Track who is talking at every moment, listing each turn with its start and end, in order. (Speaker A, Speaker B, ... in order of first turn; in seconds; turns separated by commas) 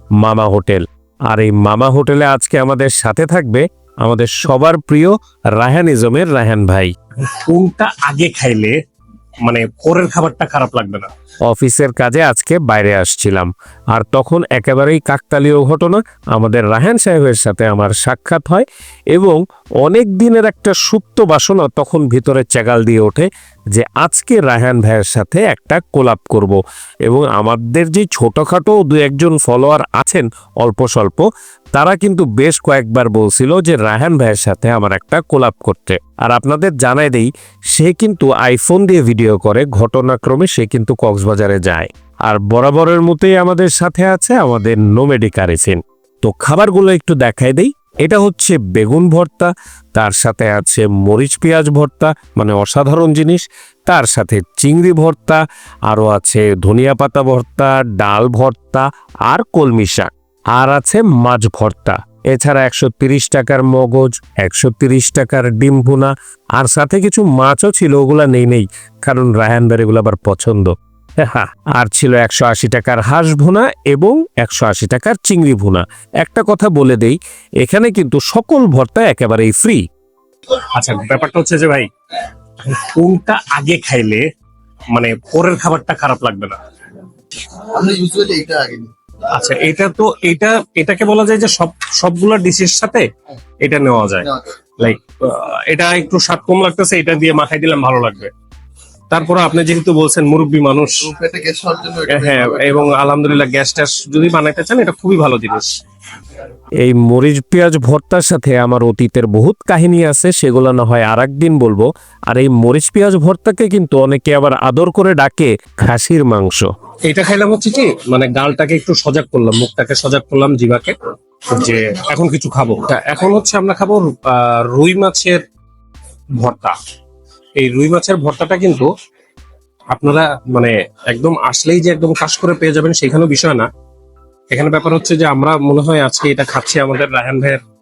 Speaker A: 0.2-6.9, Speaker B: 7.2-8.8, Speaker B: 9.4-11.1, Speaker A: 11.5-79.8, Speaker B: 80.7-81.9, Speaker B: 82.7-84.2, Speaker B: 84.9-86.6, Speaker C: 87.7-88.9, Speaker B: 89.3-93.1, Speaker B: 93.6-94.3, Speaker C: 94.2-94.5, Speaker B: 94.8-98.3, Speaker B: 99.1-101.1, Speaker C: 101.0-102.9, Speaker B: 102.1-105.8, Speaker A: 106.8-116.7, Speaker B: 117.0-121.0, Speaker B: 121.5-125.4, Speaker B: 126.4-126.8, Speaker B: 127.6-128.9, Speaker B: 129.9-133.7, Speaker B: 134.5-137.6